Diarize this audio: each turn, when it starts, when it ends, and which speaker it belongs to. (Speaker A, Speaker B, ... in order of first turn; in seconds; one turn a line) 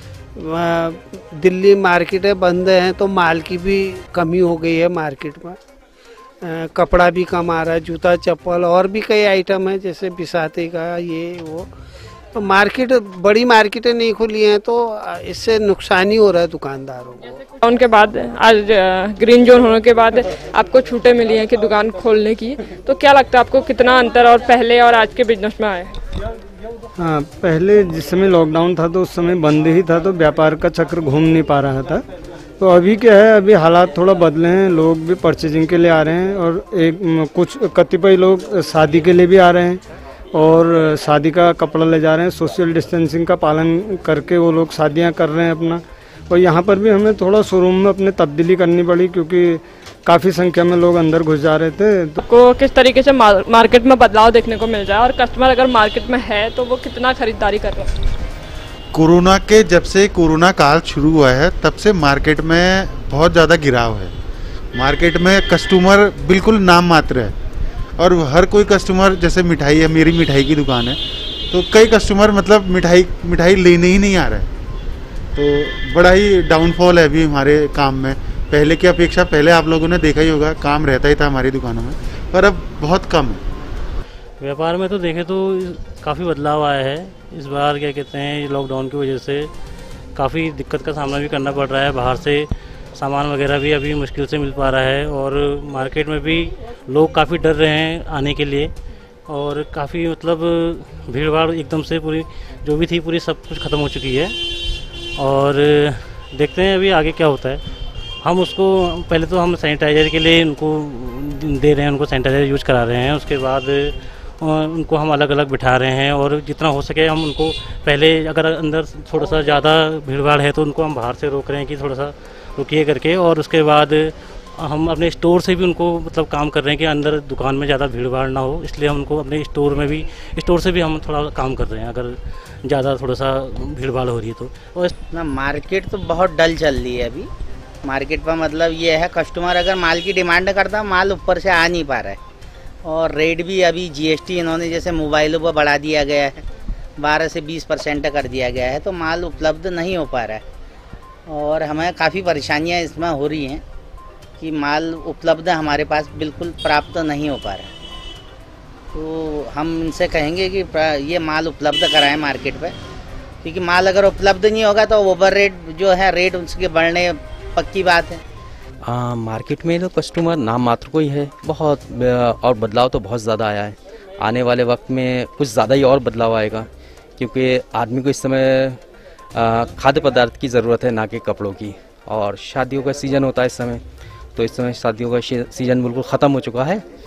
Speaker A: 0.4-5.6
Speaker A: 6.4-11.7
Speaker A: 12.3-17.4
Speaker B: 17.6-25.9
Speaker C: 27.0-32.0
Speaker C: 32.6-39.8
Speaker C: 40.3-52.1
Speaker B: 52.2-57.9
Speaker D: 58.9-64.1
Speaker D: 64.7-67.3
Speaker D: 68.0-71.0
Speaker D: 71.5-74.5
Speaker D: 75.3-83.4
Speaker E: 84.4-89.5
Speaker E: 90.2-98.7
Speaker E: 99.3-104.3
Speaker E: 105.2-107.6
Speaker E: 108.2-134.9
Speaker F: 135.1-137.3
Speaker F: 137.8-142.2
Speaker F: 142.8-146.4
Speaker F: 147.0-150.4
Speaker F: 151.3-153.6
Speaker F: 154.4-157.7
Speaker F: 158.9-162.8
Speaker F: 163.4-168.2
Speaker G: 168.8-178.8
Speaker G: 179.3-183.8
Speaker G: 184.4-186.8